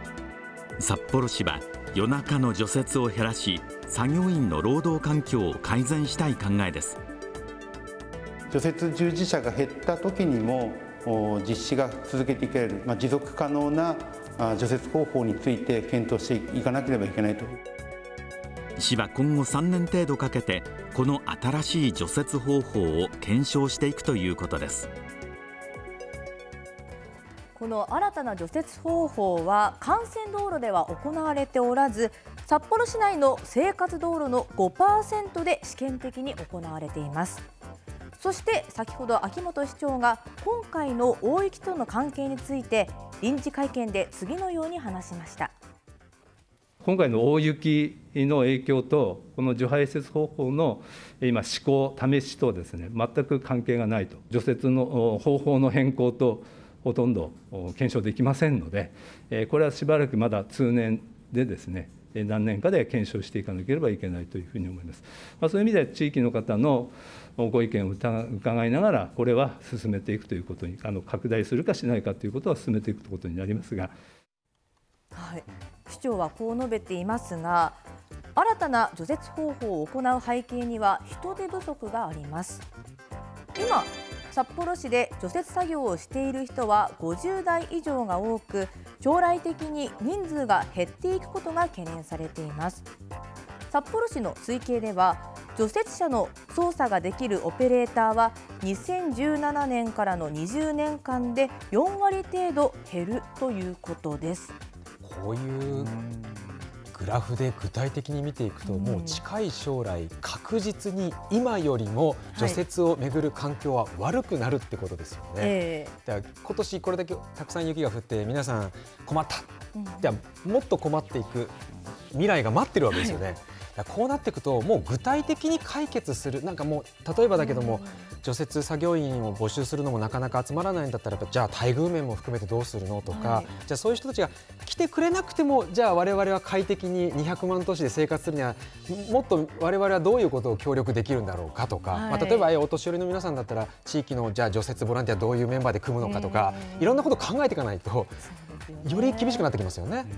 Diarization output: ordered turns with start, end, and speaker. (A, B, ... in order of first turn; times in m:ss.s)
0:00.8-0:07.0 A
0:08.5-0:17.6 B
0:18.8-0:24.9 A
0:27.5-0:37.4 C
0:38.2-0:45.5 C
0:46.8-1:13.9 D
1:15.1-1:17.8 C
1:18.3-1:22.6 C
1:23.5-1:32.9 C
1:33.7-1:44.5 C
1:45.0-1:46.0 E
1:46.9-2:01.6 E
1:48.6-1:49.2 C
1:52.3-1:52.6 C
1:55.4-1:55.9 C
1:59.7-2:00.1 C
2:02.1-2:28.2 E
2:02.9-2:03.2 C
2:07.4-2:08.0 C
2:13.1-2:13.5 C
2:21.9-2:22.5 C
2:26.0-2:27.1 C
2:28.2-2:29.5 C
2:28.8-2:30.1 E